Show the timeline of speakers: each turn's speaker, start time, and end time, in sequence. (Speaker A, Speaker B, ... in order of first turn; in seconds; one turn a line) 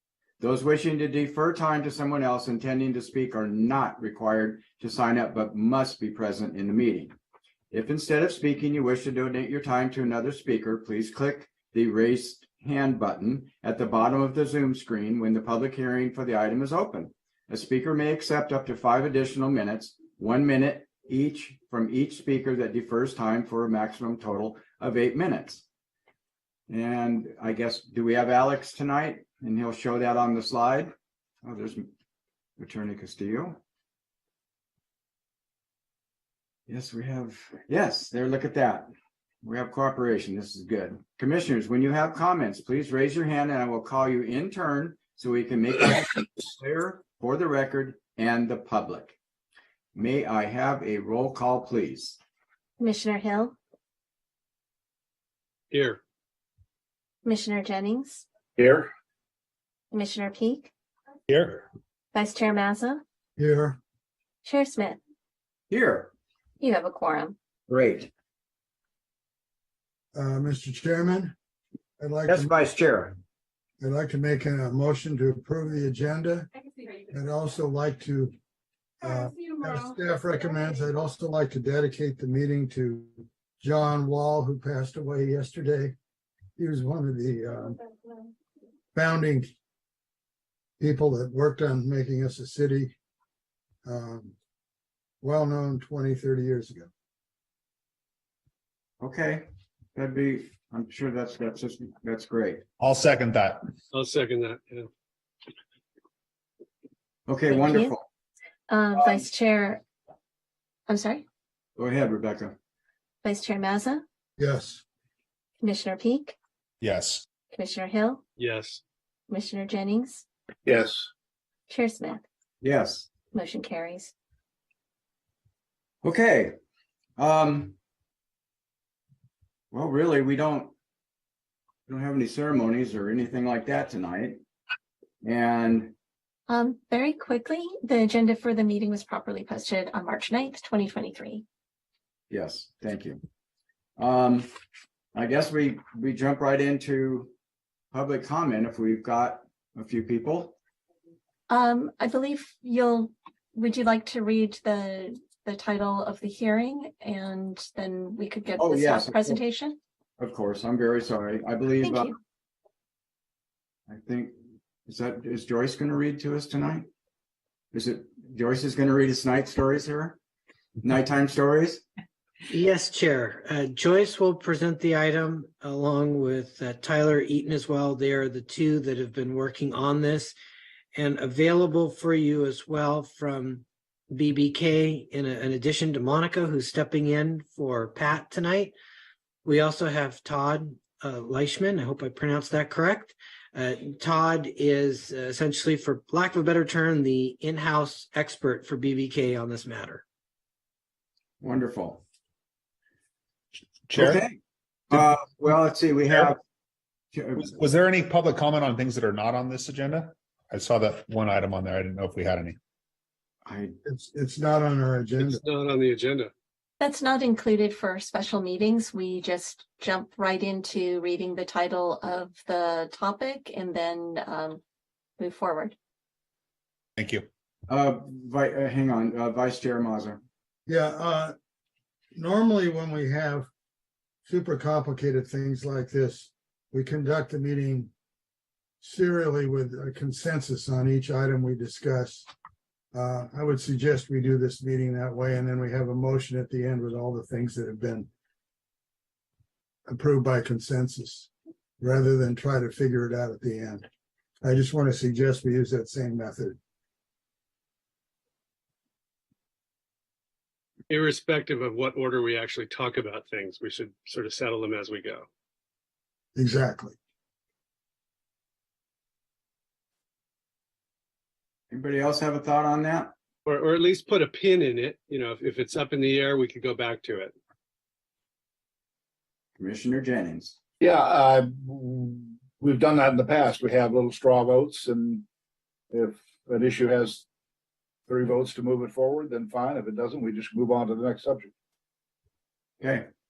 Speaker A: 0.4-7.1
Speaker A: 7.7-25.6
Speaker A: 26.7-31.9
Speaker A: 32.6-33.6
Speaker A: 36.7-38.9
Speaker A: 39.4-49.2
Speaker A: 50.0-52.2
Speaker B: 52.8-53.6
Speaker C: 55.7-56.0
Speaker B: 57.2-58.2
Speaker D: 58.6-58.9
Speaker B: 59.9-60.7
Speaker E: 61.3-61.6
Speaker B: 62.1-63.0
Speaker F: 63.4-63.8
Speaker B: 64.5-65.0
Speaker A: 65.7-66.1
Speaker B: 66.6-67.4
Speaker A: 67.7-68.1
Speaker F: 70.2-71.3
Speaker F: 72.0-72.6
Speaker A: 72.3-73.2
Speaker F: 73.8-76.5
Speaker F: 77.1-78.3
Speaker F: 79.0-86.0
Speaker F: 86.6-87.8
Speaker F: 89.0-89.5
Speaker F: 90.8-93.0
Speaker F: 93.8-94.3
Speaker F: 95.2-96.9
Speaker A: 99.0-102.6
Speaker E: 102.8-103.6
Speaker C: 103.9-104.9
Speaker A: 107.3-108.1
Speaker B: 107.5-107.9
Speaker B: 108.7-109.8
Speaker A: 109.0-109.2
Speaker B: 110.9-111.2
Speaker A: 111.8-112.6
Speaker B: 113.2-114.0
Speaker F: 114.4-114.8
Speaker B: 115.6-116.4
Speaker E: 116.8-117.2
Speaker B: 117.5-118.2
Speaker C: 118.4-118.8
Speaker B: 119.3-120.2
Speaker D: 120.7-121.1
Speaker B: 121.7-122.2
Speaker A: 122.6-123.1
Speaker B: 123.3-124.1
Speaker A: 126.0-126.5
Speaker A: 127.2-127.8
Speaker A: 129.7-130.7
Speaker A: 131.9-134.4
Speaker A: 135.2-135.9
Speaker B: 136.5-141.4
Speaker A: 142.3-143.2
Speaker A: 144.0-144.5
Speaker A: 145.1-147.3
Speaker A: 147.9-150.6
Speaker B: 151.5-159.8
Speaker A: 158.6-159.4
Speaker A: 160.2-162.1
Speaker B: 161.8-162.2
Speaker A: 163.9-166.9
Speaker A: 167.7-170.2
Speaker A: 170.8-171.9
Speaker G: 172.5-180.4
Speaker G: 180.9-188.7
Speaker G: 189.4-200.0
Speaker A: 201.4-202.0
Speaker E: 203.9-204.2
Speaker A: 203.9-204.4
Speaker A: 204.9-206.4
Speaker A: 207.1-207.6
Speaker E: 207.4-212.6
Speaker A: 213.4-213.8
Speaker F: 213.8-215.4
Speaker C: 215.2-216.3
Speaker B: 216.8-224.6
Speaker B: 225.2-225.7
Speaker E: 227.0-227.2
Speaker A: 227.7-230.2
Speaker F: 230.7-231.3
Speaker F: 232.2-233.5
Speaker F: 234.3-237.9
Speaker F: 238.8-242.3
Speaker F: 242.9-248.1
Speaker F: 249.9-253.9
Speaker F: 254.4-256.6
Speaker C: 260.9-265.2
Speaker F: 266.4-266.9
Speaker A: 271.7-273.1
Speaker C: 273.5-277.3
Speaker A: 279.6-280.6
Speaker D: 280.8-285.2
Speaker D: 285.9-287.2
Speaker D: 288.1-291.5
Speaker A: 292.8-293.1